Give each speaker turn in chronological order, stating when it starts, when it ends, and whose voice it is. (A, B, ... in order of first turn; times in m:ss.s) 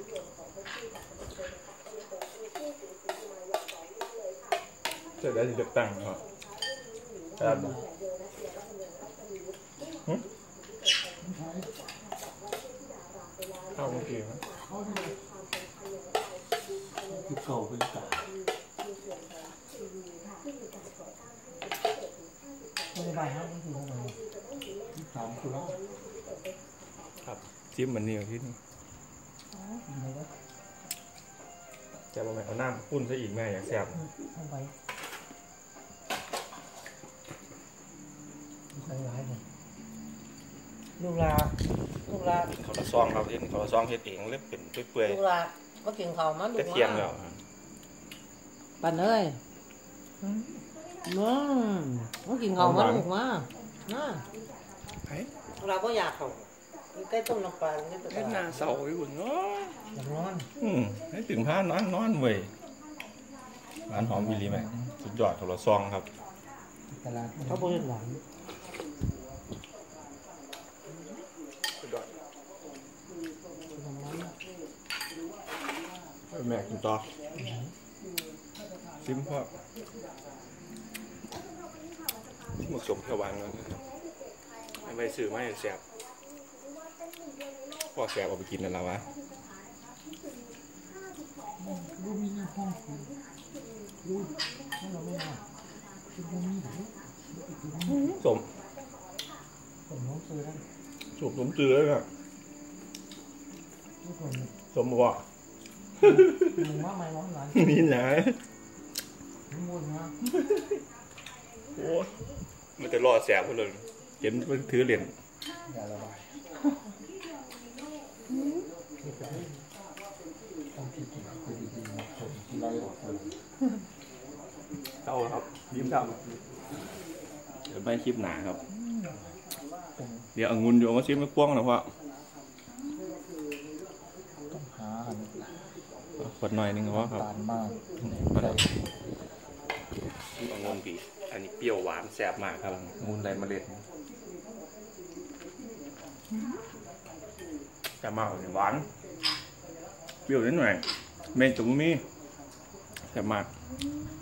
0:05.2-0:06.2 A
0:07.4-0:07.8 A
0:07.4-0:07.8 B
0:11.2-0:11.8 B
0:13.7-0:14.4 A
0:14.6-0:15.2 B
0:17.1-0:18.3 B
0:22.9-0:24.2 C
0:24.9-0:25.8 B
0:27.2-0:28.6 A
0:29.5-0:29.8 C
0:29.8-0:30.3 B
0:32.1-0:34.0 A
0:33.9-0:34.7 C
0:38.7-0:39.4 C
0:41.0-0:42.5 C
0:42.5-0:45.2 A
0:45.0-0:47.1 C
0:46.5-0:47.4 A
0:48.8-0:49.4 C
0:50.2-0:54.3 C
0:52.6-0:53.1 A
0:55.1-0:55.3 A
0:55.6-0:58.6 C
0:58.1-0:59.8 A
1:00.0-1:00.5 C
1:00.6-1:02.5 A
1:03.9-1:06.1 A
1:03.9-1:04.9 B
1:06.9-1:07.9 B
1:07.4-1:08.2 C
1:11.8-1:12.1 A
1:13.7-1:14.4 C
1:16.3-1:17.1 A
1:17.3-1:17.7 C
1:19.0-1:19.6 A
1:22.6-1:23.8 A
1:24.8-1:25.8 A
1:27.9-1:29.1 A
1:31.6-1:33.2 B
1:34.0-1:34.4 B
1:34.8-1:35.4 C
1:36.1-1:38.2 B
1:37.8-1:38.5 A
1:39.9-1:40.6 C
1:41.2-1:42.1 A
1:44.0-1:44.5 C
1:44.7-1:45.2 A
1:46.0-1:46.6 A
1:46.0-1:47.9 C
1:47.6-1:48.4 A
1:49.5-1:50.1 C
1:50.2-1:50.8 A
1:51.8-1:52.1 A
1:52.8-1:55.1 A
1:55.7-1:56.4 B
1:58.3-1:58.7 A
1:59.0-1:59.6 C
1:59.1-1:59.5 B
2:00.7-2:03.4 B
2:05.0-2:06.1 A
2:05.7-2:07.0 B
2:07.7-2:08.6 A
2:08.7-2:09.4 B
2:10.0-2:10.3 B
2:10.4-2:11.9 A
2:14.5-2:15.8 B
2:16.2-2:17.3 A
2:16.9-2:18.9 B
2:18.0-2:18.7 A
2:20.3-2:20.8 B
2:20.4-2:23.9 A
2:28.0-2:28.9 A
2:30.3-2:32.1 A
2:33.1-2:33.5 A